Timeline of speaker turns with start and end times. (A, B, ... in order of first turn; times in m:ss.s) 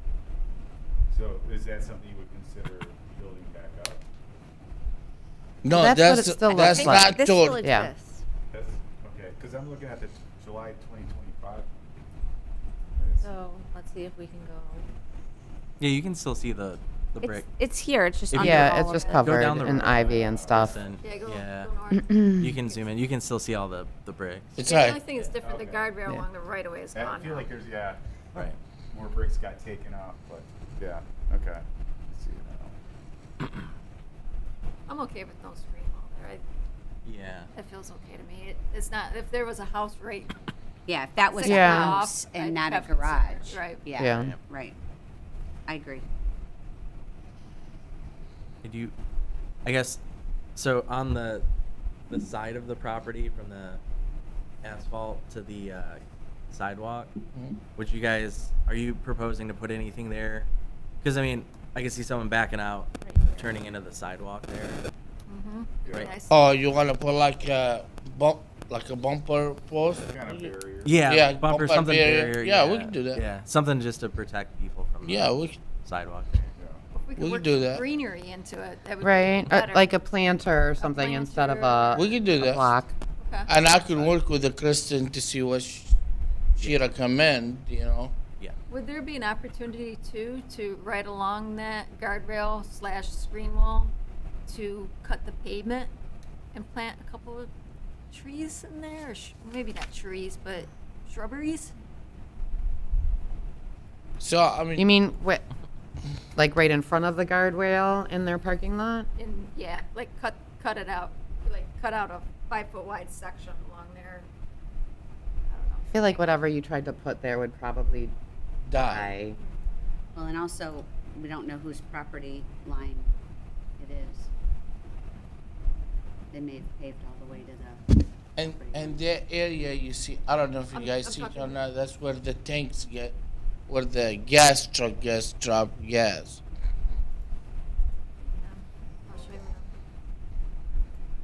0:01.1-0:04.1 A
0:05.6-0:07.7 B
0:05.7-0:07.9 C
0:06.6-0:08.2 D
0:08.5-0:11.9 A
0:13.0-0:13.3 A
0:13.2-0:14.9 D
0:15.8-0:17.5 E
0:17.2-0:19.3 D
0:18.3-0:25.5 E
0:18.4-0:19.6 F
0:18.4-0:20.8 C
0:19.8-0:20.6 A
0:21.0-0:22.8 F
0:24.6-0:25.0 B
0:24.6-0:27.5 F
0:25.4-0:26.0 A
0:26.9-0:32.8 A
0:34.9-0:36.4 F
0:37.0-0:37.5 E
0:37.5-0:40.3 F
0:40.9-0:44.8 G
0:41.3-0:43.9 F
0:41.4-0:42.0 C
0:44.0-0:44.3 C
0:44.1-0:44.4 E
0:45.7-0:46.0 G
0:48.6-0:48.9 E
0:49.6-0:50.0 E
0:50.6-0:51.5 E
0:52.1-0:53.8 E
0:54.6-0:57.1 E
0:57.8-1:00.5 E
1:01.0-1:04.8 E
1:03.0-1:03.5 D
1:05.3-1:06.5 F
1:05.8-1:06.2 A
1:06.3-1:10.1 B
1:10.0-1:11.2 A
1:10.8-1:16.5 E
1:11.1-1:13.2 B
1:15.0-1:15.6 B
1:16.6-1:16.8 A
1:16.9-1:19.9 F
1:17.2-1:17.8 B
1:19.0-1:22.9 C
1:20.8-1:22.2 F
1:21.9-1:22.7 B
1:23.2-1:23.5 F
1:23.5-1:26.0 B
1:26.6-1:28.2 B
1:26.6-1:26.8 E
1:28.7-1:33.9 F
1:34.5-1:35.9 F
1:36.5-1:37.5 F
1:38.1-1:41.7 F
1:44.2-1:44.8 B
1:44.8-1:45.4 C
1:46.4-1:49.1 C
1:49.2-1:54.3 F
1:55.5-1:56.4 F
1:55.9-1:58.1 C
1:58.7-1:59.1 B
1:58.7-1:59.4 C
2:00.2-2:03.1 G
2:03.8-2:04.3 G
2:06.3-2:09.0 G
2:08.4-2:13.2 B
2:10.7-2:11.6 F
2:13.7-2:16.4 B
2:18.2-2:19.7 F